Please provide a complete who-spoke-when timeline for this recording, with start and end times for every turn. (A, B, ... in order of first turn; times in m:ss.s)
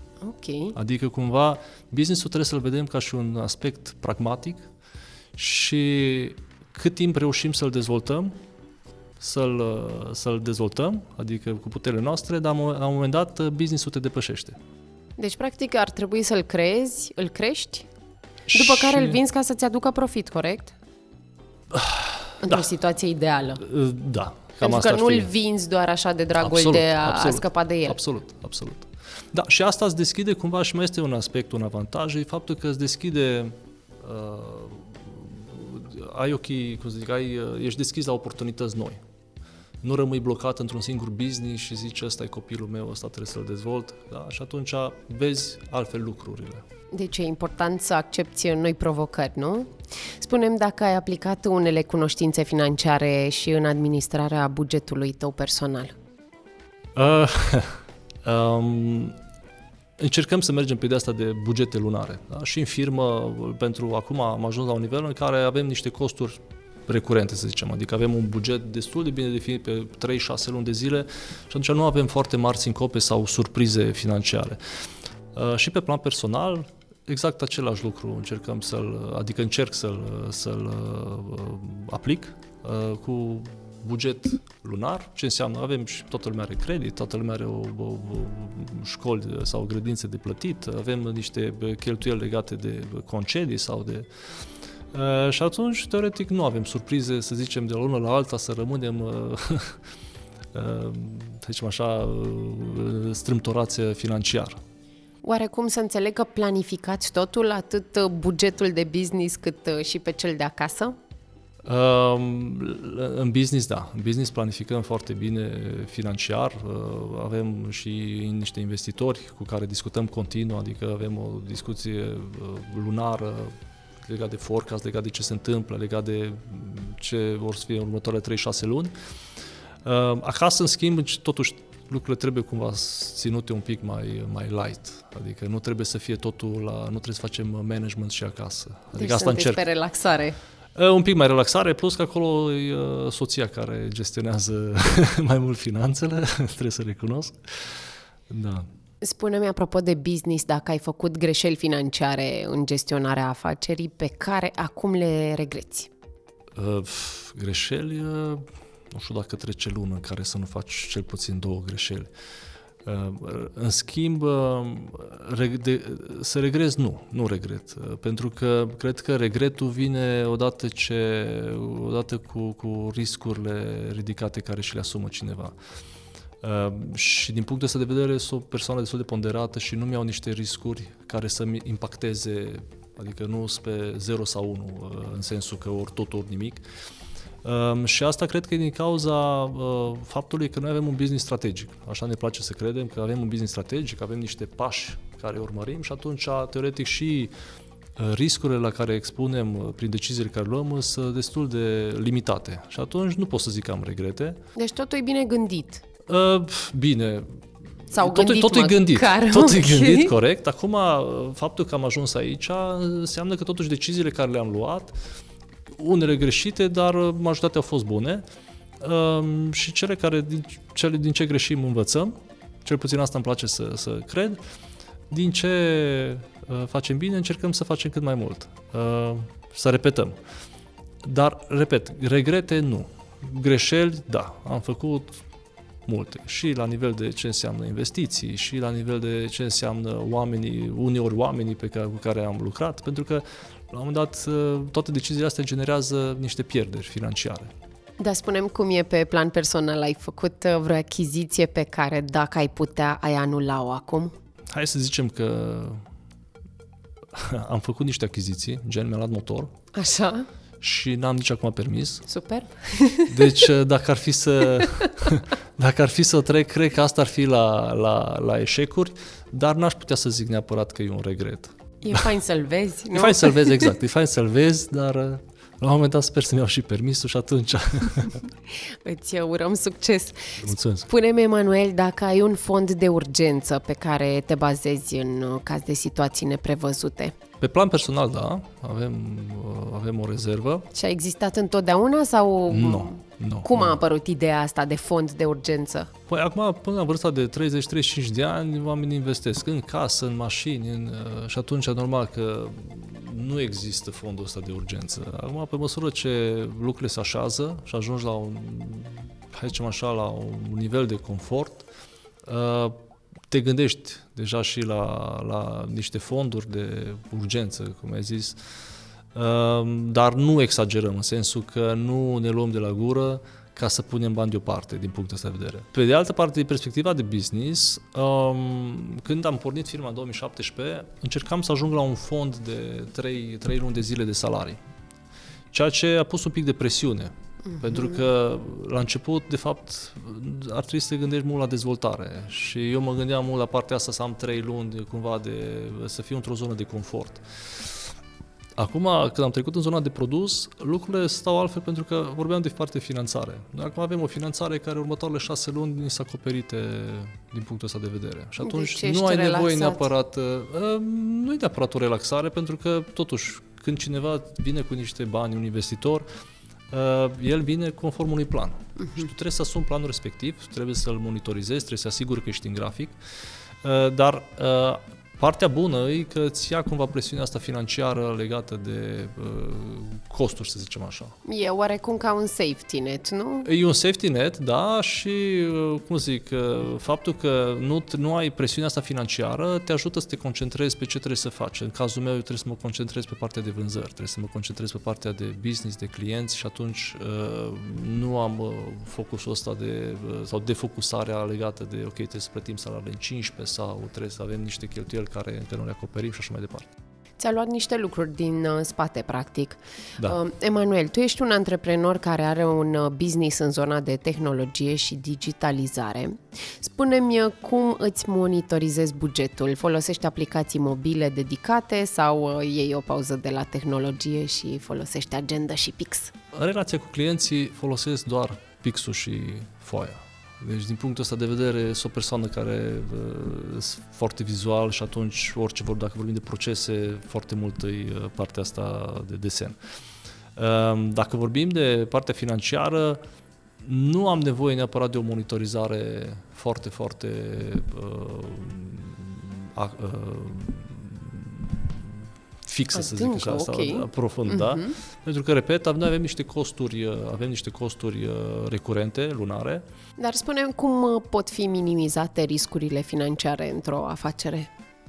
0:00.2-0:00.8 A
0:00.7-0:04.6 B
0:05.4-0:08.3 B
0:09.2-0:14.6 B
0:15.2-0:17.9 A
0:18.5-0:19.2 B
0:18.5-0:20.7 A
0:21.7-0:22.6 B
0:22.4-0:23.6 A
0:23.6-0:25.3 B
0:24.6-0:28.0 A
0:26.4-0:39.0 B
0:39.8-0:46.6 B
0:46.9-0:55.9 A
0:56.9-0:59.2 B
1:00.0-1:14.6 B
1:15.3-1:34.1 B
1:34.9-1:39.8 B
1:40.5-1:44.6 B
1:45.2-1:51.0 A
1:51.6-2:08.9 B
2:09.8-2:19.6 B
2:18.9-2:20.4 A
2:20.7-2:28.7 B
2:29.0-2:35.9 A
2:36.6-2:42.1 B
2:42.8-2:55.6 B
2:56.4-3:06.6 B
3:07.4-3:17.3 B
3:18.0-3:24.4 B
3:24.6-3:25.8 A
3:26.1-3:35.0 B
3:27.9-3:30.1 A
3:35.7-3:38.2 B
3:38.8-3:44.4 B
3:45.1-3:50.2 B
3:51.0-3:55.2 B
3:55.8-4:07.5 B
4:08.0-4:14.1 A
4:14.5-4:15.8 B
4:17.1-4:19.5 B
4:19.7-4:20.3 A
4:20.6-4:22.0 B
4:22.1-4:23.4 A
4:23.1-4:32.0 B
4:24.6-4:24.9 A
4:31.8-4:33.7 A
4:32.9-4:38.2 B
4:38.5-4:47.2 A
4:40.4-4:40.9 B
4:47.4-4:50.7 B
4:50.7-4:55.9 A
4:52.5-4:53.7 B
4:56.1-5:11.6 B
5:12.2-5:12.8 B
5:13.3-5:18.4 B
5:19.1-5:34.6 B
5:35.5-5:47.8 B
5:37.4-5:38.0 A
5:48.6-6:06.0 B
5:58.4-5:59.9 A
6:06.7-6:13.0 B
6:08.8-6:09.0 A
6:13.6-6:21.1 B
6:21.2-6:23.5 A
6:23.4-6:46.7 B
6:47.2-7:06.1 A
7:06.3-7:19.6 B
7:20.4-7:23.0 B
7:23.6-7:31.9 B
7:32.4-7:39.6 B
7:32.7-7:34.8 A
7:40.0-7:44.5 A